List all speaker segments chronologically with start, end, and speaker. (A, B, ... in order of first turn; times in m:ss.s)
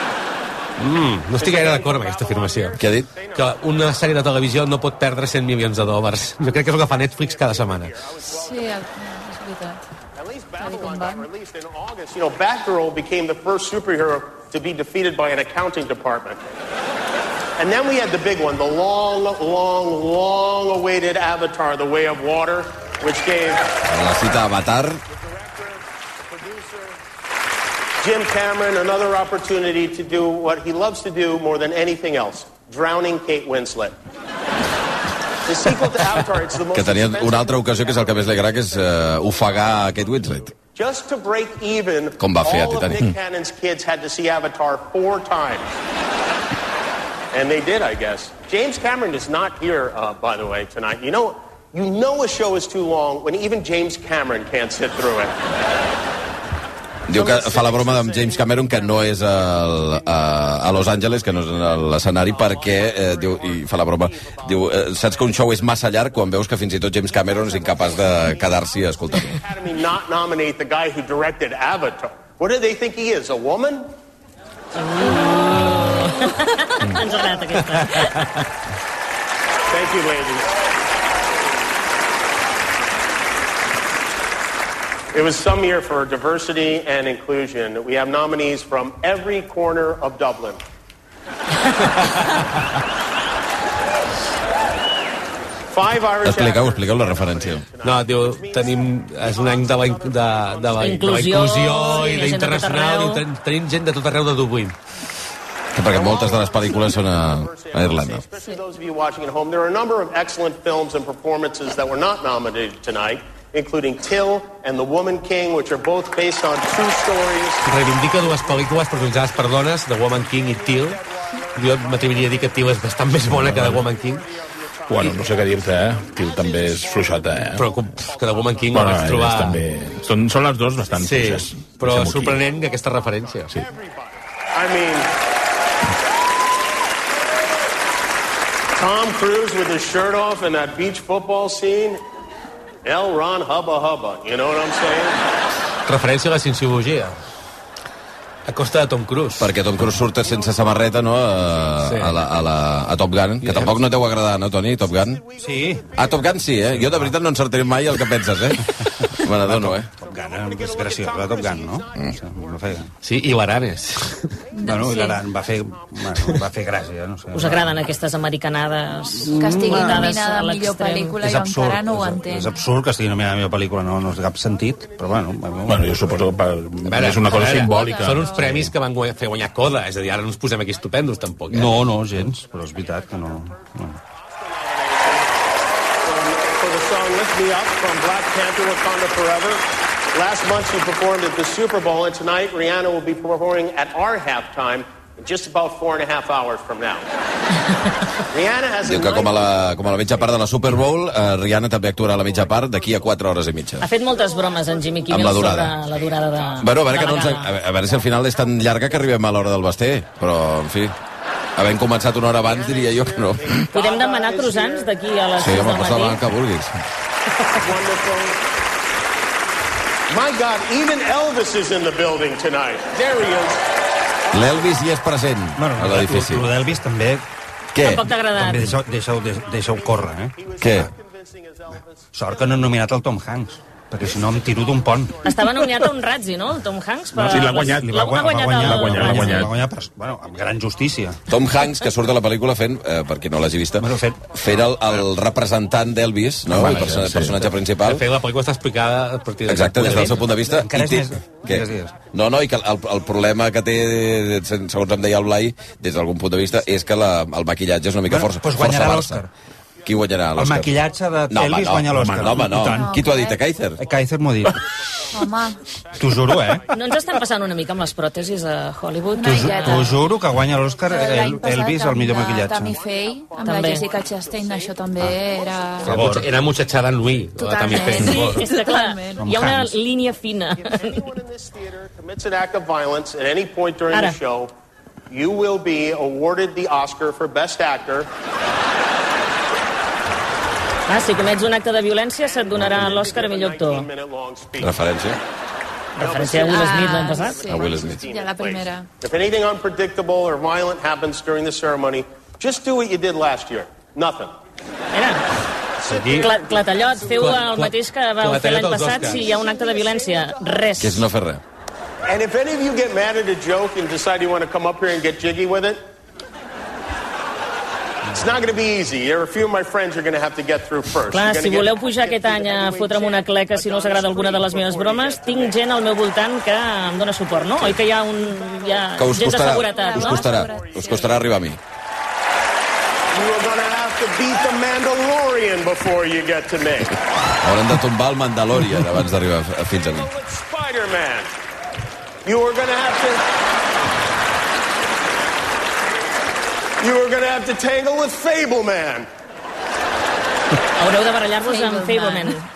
0:00.8-0:02.8 A
0:01.4-0:03.9 B
0:02.8-0:03.1 C
0:03.3-0:07.9 A
0:07.0-0:08.6 B
0:08.2-0:09.8 D
0:10.2-0:16.4 B
0:10.6-0:11.3 D
0:17.6-0:23.7 B
0:23.9-0:25.0 C
0:25.4-0:27.0 B
0:28.0-0:34.0 B
0:35.5-0:39.2 B
0:36.7-0:40.6 C
0:40.7-0:45.7 B
0:42.2-0:43.1 C
0:47.3-0:55.4 B
0:57.1-1:09.4 C
0:57.1-0:59.6 B
1:00.2-1:06.3 B
1:07.0-1:13.9 B
1:14.8-1:18.2 E
1:17.6-1:18.4 A
1:19.7-1:20.4 B
1:25.1-1:30.6 B
1:35.7-1:41.0 B
1:36.2-1:37.7 C
1:37.8-1:44.8 A
1:40.8-1:43.2 E
1:45.7-1:48.2 C
1:45.9-1:59.2 B
1:57.6-2:01.0 A
2:00.0-2:03.1 B
2:01.6-2:04.3 A
2:03.3-2:03.8 F
2:03.8-2:09.0 B
2:04.9-2:07.8 F
2:07.5-2:09.7 A
2:08.7-2:12.4 F
2:10.7-2:11.1 B
2:11.0-2:13.5 A
2:12.5-2:15.1 B
2:18.8-2:22.0 B
2:22.8-2:25.2 B
2:25.9-2:27.2 A
2:28.5-2:29.5 A
2:29.4-2:35.2 C
2:30.0-2:31.8 B
2:31.8-2:32.2 A
2:33.4-2:33.8 A
2:34.5-2:36.7 B
2:35.4-2:37.2 G
2:36.0-2:39.9 C
2:39.2-2:42.9 G
2:40.1-2:42.7 B
2:43.0-2:44.3 A
2:44.5-2:45.2 D
2:44.6-2:47.8 G
2:47.3-2:51.2 E
2:49.2-2:52.6 D
2:49.2-2:50.1 A
2:51.2-2:56.2 G
2:54.5-2:56.3 B
2:55.6-2:58.7 F
2:56.8-3:01.8 A
2:57.3-2:58.7 D
3:01.5-3:04.0 G
3:02.7-3:03.5 B
3:04.2-3:05.4 B
3:06.0-3:17.1 B
3:18.3-3:19.5 B
3:18.8-3:23.9 C
3:23.8-3:27.5 E
3:25.1-3:25.8 C
3:26.6-3:31.0 C
3:31.6-3:33.7 C
3:32.3-3:34.9 B
3:33.7-3:36.2 E
3:35.4-3:36.8 C
3:37.6-3:38.4 B
3:40.1-3:43.7 B
3:44.3-3:44.8 B
3:44.3-3:46.5 C
3:45.6-3:47.2 G
3:47.7-3:48.1 C
3:47.8-3:48.7 E
3:48.3-3:50.9 G
3:49.0-3:52.7 B
3:50.6-3:50.9 C
3:52.1-3:55.2 G
3:54.1-3:55.4 B
3:55.3-3:59.4 E
3:57.2-4:01.2 G
3:57.2-3:59.5 F
4:01.3-4:08.0 C
4:03.8-4:04.2 G
4:06.5-4:10.3 A
4:06.5-4:07.4 F
4:09.5-4:19.2 C
4:10.3-4:12.0 G
4:18.1-4:19.3 G
4:19.8-4:23.8 C
4:20.4-4:23.0 G
4:21.9-4:22.4 F
4:22.6-4:23.4 D
4:23.8-4:24.6 G
4:25.1-4:25.6 D
4:26.0-4:26.6 G
4:26.7-4:30.0 E
4:29.1-4:30.0 D
4:29.2-4:32.8 G
4:30.9-4:36.0 D
4:32.6-4:37.0 B
4:33.4-4:33.9 E
4:35.8-4:36.3 G
4:35.9-4:38.5 A
4:37.4-4:39.2 D
4:38.0-4:41.0 E
4:39.2-4:39.8 G
4:40.5-4:44.5 B
4:43.9-4:44.2 E
4:45.1-4:48.1 B
4:50.9-4:53.9 E
4:52.2-4:54.8 B
4:54.6-4:55.2 C
4:56.0-5:04.3 B
4:56.0-4:57.4 E
4:56.0-4:58.9 D
4:57.5-4:58.0 C
5:04.9-5:05.2 E
5:05.8-5:06.4 A
5:05.9-5:11.0 E
5:07.0-5:09.4 A
5:10.8-5:11.4 C
5:12.1-5:15.8 B
5:18.1-5:25.6 B
5:21.1-5:30.3 E
5:27.3-5:27.6 B
5:28.2-5:29.0 B
5:29.0-5:31.6 C
5:29.6-5:31.1 B
5:29.7-5:31.2 D
5:33.1-5:37.0 B
5:37.4-5:40.1 C
5:39.9-5:41.3 B
5:42.3-5:43.2 B
5:46.8-5:49.1 B
5:50.8-5:52.5 E
5:51.7-5:52.3 D